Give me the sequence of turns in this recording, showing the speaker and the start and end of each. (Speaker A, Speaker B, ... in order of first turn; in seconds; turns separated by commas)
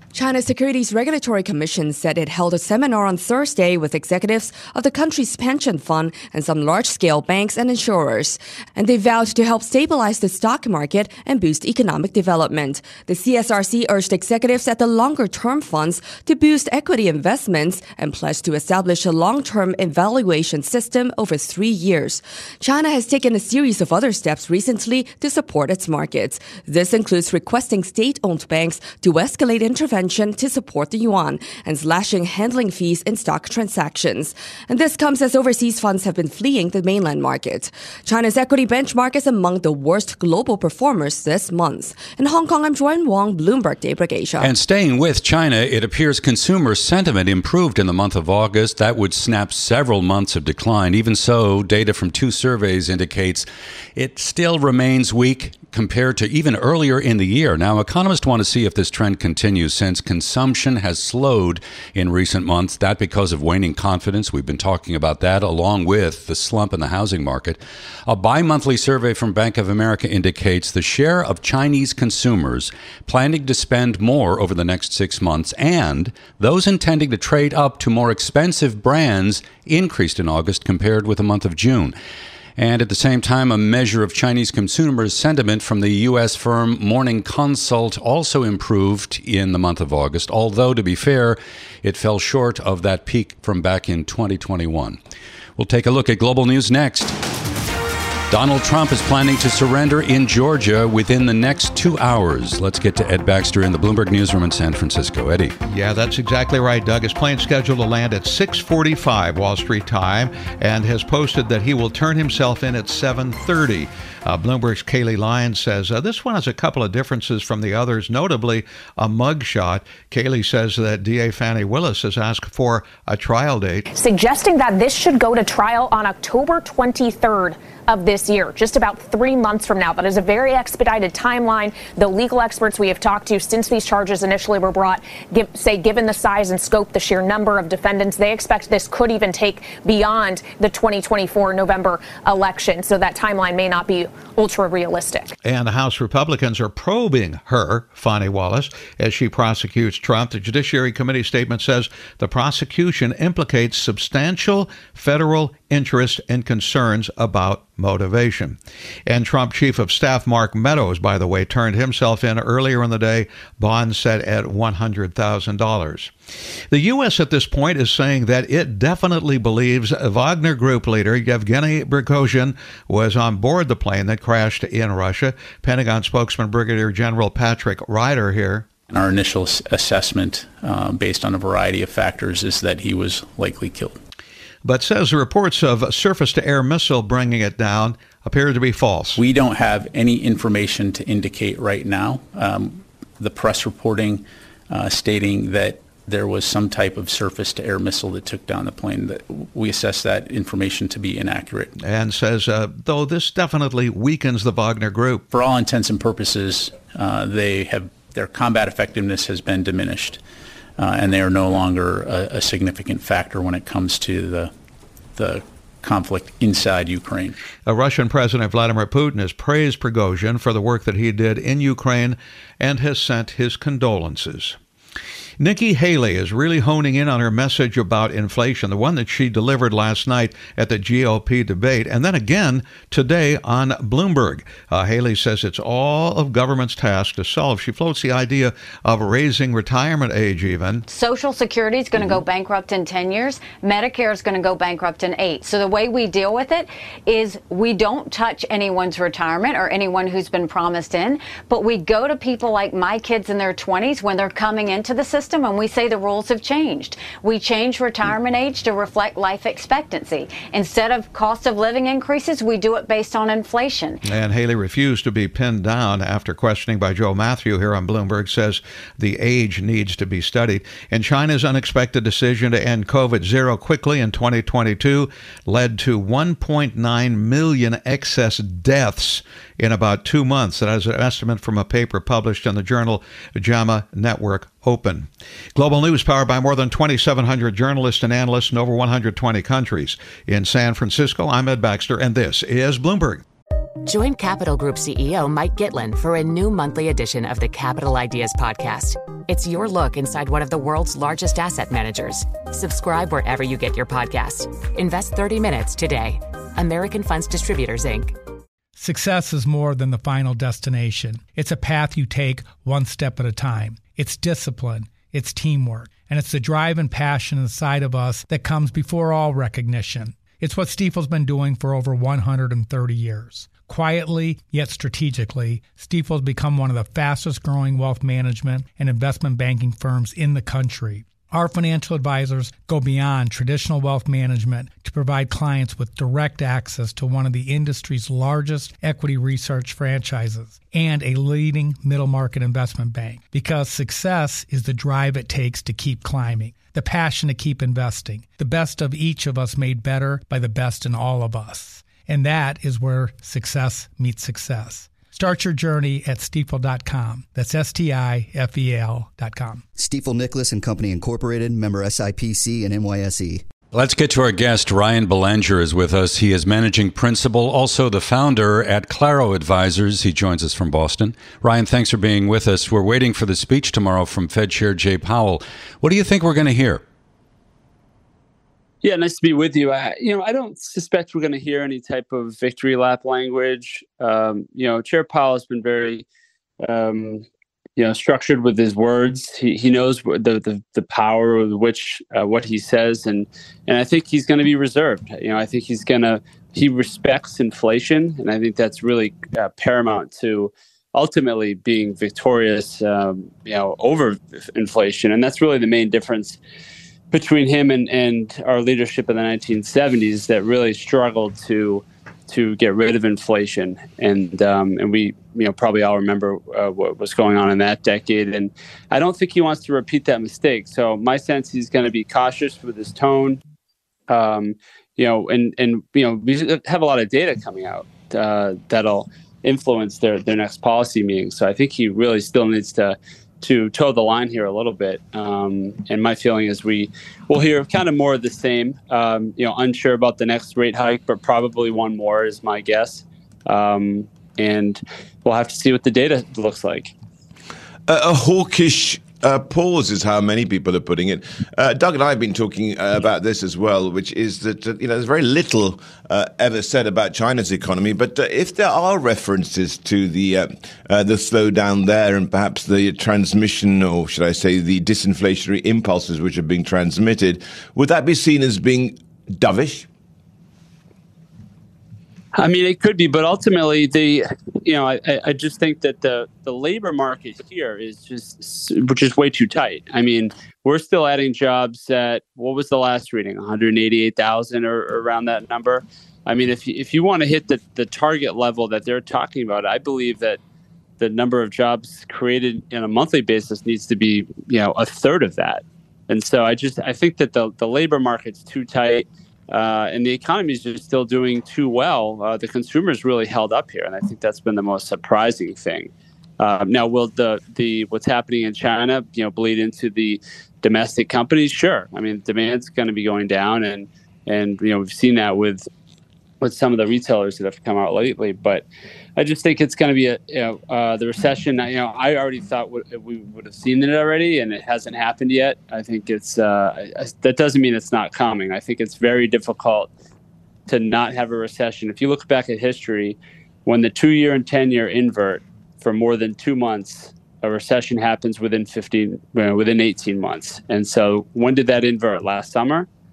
Speaker A: 0.1-44.5, Speaker B: 44.4-81.9, Speaker B: 82.6-95.0, Speaker B: 95.6-97.2, Speaker B: 98.3-105.5, Speaker C: 105.7-123.9, Speaker D: 124.0-145.3, Speaker C: 145.4-166.1, Speaker C: 166.7-178.7, Speaker E: 178.9-184.0, Speaker C: 184.7-189.2, Speaker E: 189.2-201.7, Speaker C: 201.8-205.2, Speaker E: 205.3-210.2, Speaker E: 210.8-214.5, Speaker E: 215.2-217.4, Speaker C: 217.7-224.6, Speaker C: 225.4-240.9, Speaker F: 240.9-264.0, Speaker C: 264.0-293.2, Speaker G: 293.9-308.1, Speaker H: 308.8-359.6, Speaker I: 359.8-363.4, Speaker B: 363.7-376.8, Speaker J: 378.8-386.1, Speaker J: 386.6-387.2, Speaker J: 387.8-406.4, Speaker J: 407.1-423.4, Speaker J: 424.1-446.9, Speaker K: 447.9-469.9, Speaker J: 472.3-490.4, Speaker J: 491.0-515.7, Speaker J: 516.4-529.9, Speaker J: 530.7-542.9